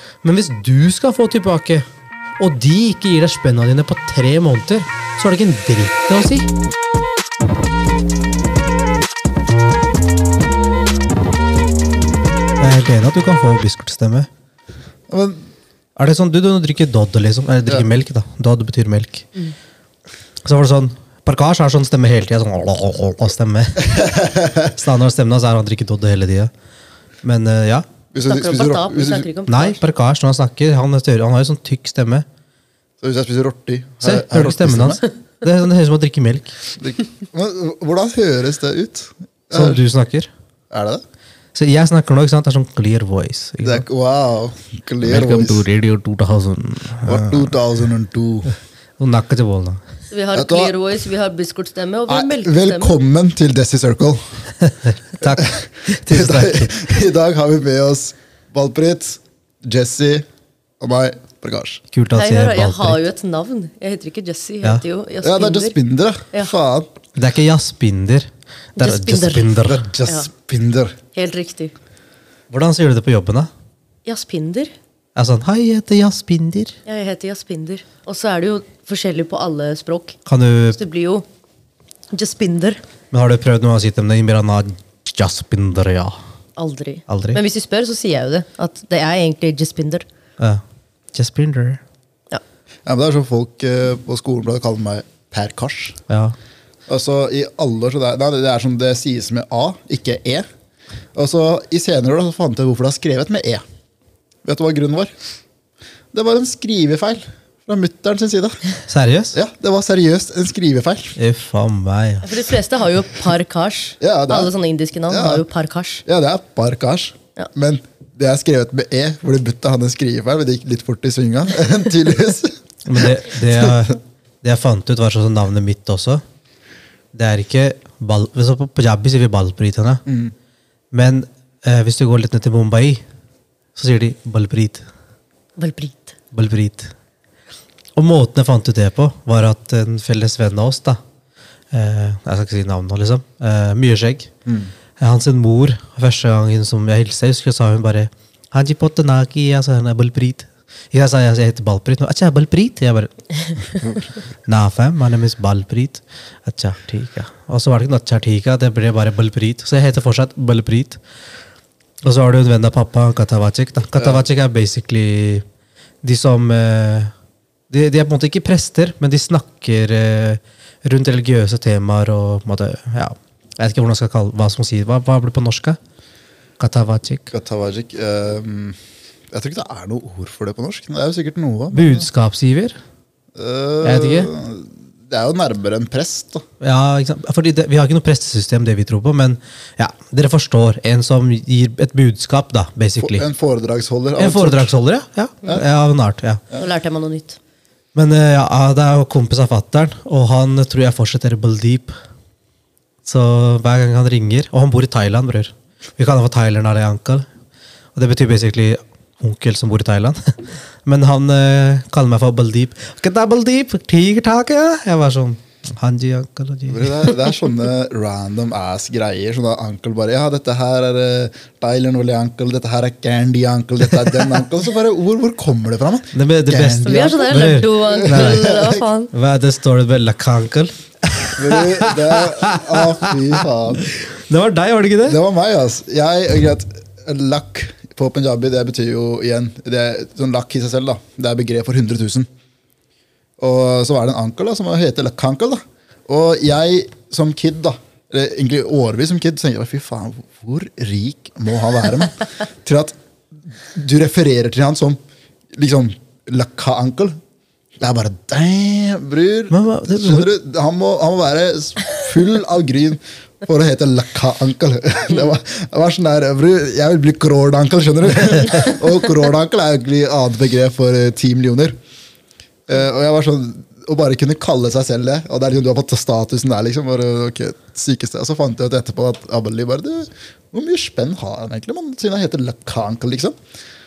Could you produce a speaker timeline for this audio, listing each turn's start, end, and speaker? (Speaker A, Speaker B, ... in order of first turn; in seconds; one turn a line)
Speaker A: 0.2-1.9
Speaker A: 2.4-6.5
Speaker A: 12.6-14.3
Speaker B: 15.1-15.4
Speaker A: 15.9-19.3
Speaker A: 20.4-26.5
Speaker B: 23.9-24.7
Speaker A: 27.2-27.9
Speaker B: 28.1-29.3
Speaker C: 28.2-29.8
Speaker A: 29.5-32.2
Speaker B: 33.0-35.0
Speaker A: 34.0-36.5
Speaker B: 36.8-39.8
Speaker A: 39.5-40.3
Speaker B: 40.7-41.0
Speaker A: 41.5-43.8
Speaker B: 43.6-45.6
Speaker A: 45.0-47.6
Speaker B: 47.0-48.5
Speaker A: 49.0-49.8
Speaker C: 50.1-53.0
Speaker B: 50.3-50.7
Speaker B: 52.1-54.4
Speaker A: 54.6-56.7
Speaker B: 55.2-60.2
Speaker B: 60.8-61.8
Speaker A: 61.9-63.0
Speaker C: 62.1-65.8
Speaker B: 65.2-66.9
Speaker A: 67.1-69.9
Speaker C: 68.8-70.3
Speaker B: 69.6-71.0
Speaker C: 71.1-71.7
Speaker A: 72.5-73.5
Speaker C: 74.0-74.7
Speaker A: 75.2-76.8
Speaker C: 76.8-80.2
Speaker A: 80.2-80.8
Speaker C: 80.7-81.2
Speaker C: 82.1-82.8
Speaker A: 83.1-86.2
Speaker C: 86.6-90.0
Speaker A: 87.1-87.4
Speaker A: 91.1-91.8
Speaker B: 92.8-96.0
Speaker A: 96.1-96.3
Speaker B: 96.9-100.5
Speaker B: 101.1-103.6
Speaker B: 104.4-105.1
Speaker B: 106.1-108.6
Speaker A: 108.9-109.4
Speaker B: 109.3-111.2
Speaker A: 111.2-112.3
Speaker C: 112.2-116.0
Speaker B: 114.0-114.5
Speaker B: 115.1-115.4
Speaker B: 116.0-123.7
Speaker A: 122.8-126.2
Speaker A: 127.1-130.0
Speaker B: 130.1-130.3
Speaker A: 130.9-133.0
Speaker A: 133.7-134.8
Speaker C: 135.6-136.1
Speaker A: 136.3-136.9
Speaker A: 137.9-141.0
Speaker A: 141.7-144.3
Speaker A: 145.0-153.1
Speaker A: 154.4-161.0
Speaker A: 162.0-165.4
Speaker B: 164.0-164.2
Speaker A: 166.0-167.1
Speaker A: 167.7-175.8
Speaker A: 176.6-177.3
Speaker B: 177.3-178.8
Speaker B: 179.3-182.1
Speaker A: 181.7-182.8
Speaker B: 183.3-186.4
Speaker A: 183.8-184.3
Speaker A: 186.6-193.2
Speaker B: 193.0-194.7
Speaker A: 194.2-196.4
Speaker C: 196.5-197.4
Speaker A: 197.9-202.0
Speaker A: 203.0-207.2
Speaker A: 207.9-217.1
Speaker B: 216.7-227.3
Speaker A: 226.1-228.5
Speaker C: 226.8-229.1
Speaker B: 227.9-228.8
Speaker A: 229.1-235.2
Speaker B: 231.3-233.8
Speaker B: 235.1-242.3
Speaker B: 243.4-255.0
Speaker B: 255.5-257.2
Speaker B: 257.8-271.8
Speaker A: 259.5-260.3
Speaker B: 272.7-283.4